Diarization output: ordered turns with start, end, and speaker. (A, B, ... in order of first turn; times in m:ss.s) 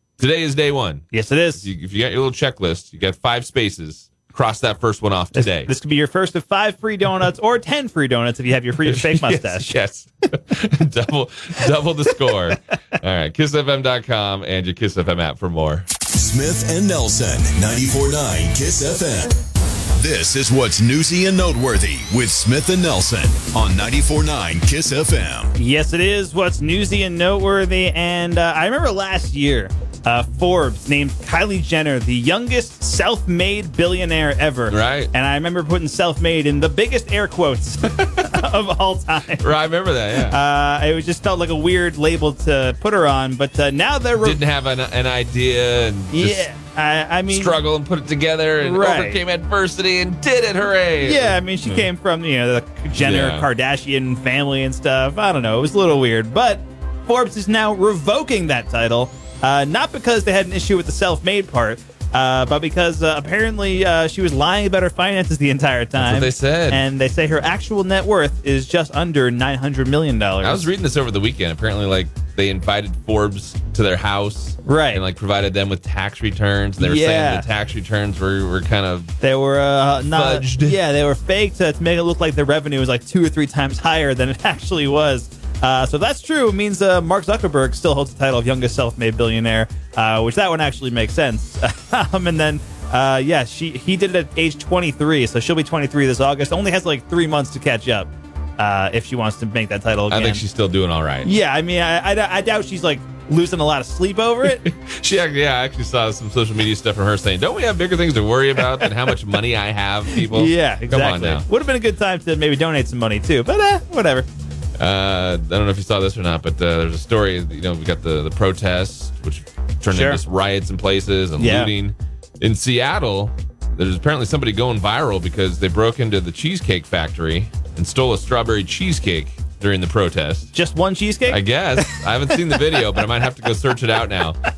0:00.2-0:01.0 A
0:01.1-0:01.6 B
0:01.6-0:05.7 A
0:05.3-0:09.7 B
0:08.8-0:15.9 A
0:12.3-0:12.5 B
0:16.1-0:19.4 C
0:19.9-0:25.5 C
0:25.6-0:39.5 B
0:34.7-0:35.1 A
0:39.4-0:40.4 A
0:40.3-0:44.4 B
0:44.2-0:46.5 A
0:46.1-0:47.6 B
0:47.3-0:51.9 A
0:48.6-0:49.2 B
0:51.0-1:10.7 B
0:53.0-0:53.5 A
1:06.0-1:06.8 A
1:10.4-1:19.1 A
1:14.6-1:15.0 B
1:16.8-1:17.4 B
1:19.2-1:40.4 B
1:20.1-1:20.8 A
1:40.1-1:41.3 A
1:41.2-1:44.6 B
1:44.4-1:51.4 A
1:50.2-1:54.3 B
1:54.8-2:10.5 A
1:59.9-2:00.2 B
2:01.4-2:01.7 B
2:10.5-2:12.6 B
2:11.3-2:14.4 A